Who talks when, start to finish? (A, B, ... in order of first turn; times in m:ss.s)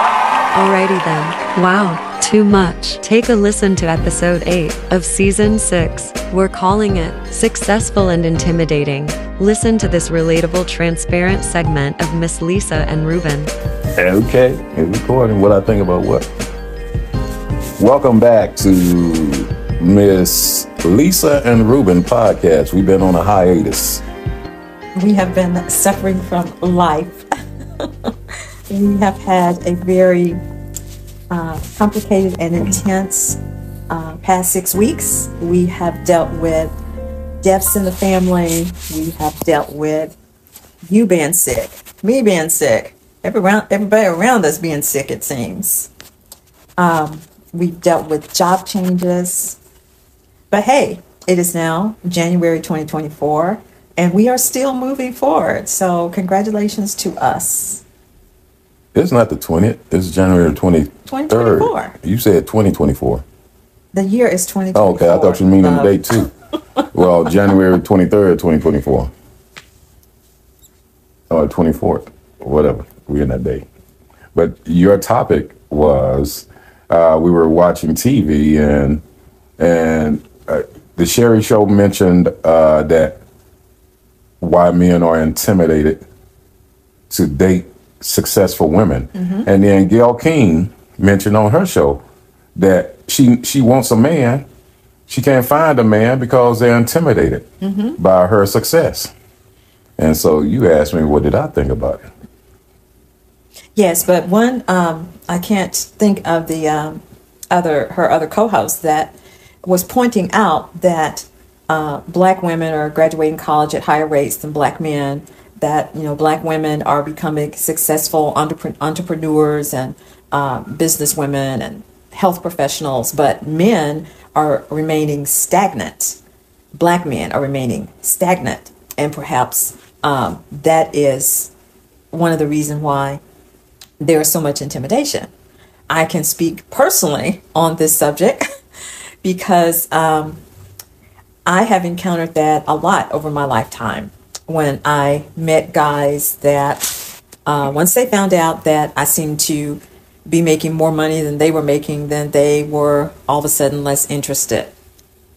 0:00.5-0:13.5 A
0:14.0-0:16.3 B
0:17.8-0:24.0 B
0:24.9-0:27.2 C
0:28.7-0:30.4 C
0:31.3-0:36.7 C
0:37.4-0:40.2 C
0:40.9-0:45.9 C
0:46.8-0:49.6 C
0:50.5-0:57.8 C
0:58.9-1:03.2 B
1:01.1-1:01.9 C
1:03.9-1:05.9 C
1:04.7-1:06.3 B
1:06.9-1:09.1 B
1:11.3-1:13.6 B
1:14.3-1:19.0 B
1:19.6-1:23.2 B
1:24.4-1:26.0 B
1:27.1-1:32.0 B
1:29.2-1:29.4 C
1:32.6-1:34.4 B
1:35.1-1:37.5 B
1:37.6-1:38.0 C
1:38.0-1:39.1 B
1:40.0-1:42.1 B
1:43.8-2:06.2 C
2:06.7-2:11.5 C
2:12.1-2:13.2 C
2:14.0-2:15.3 C
2:15.9-2:18.4 C
2:19.2-2:20.4 C
2:21.4-2:34.7 C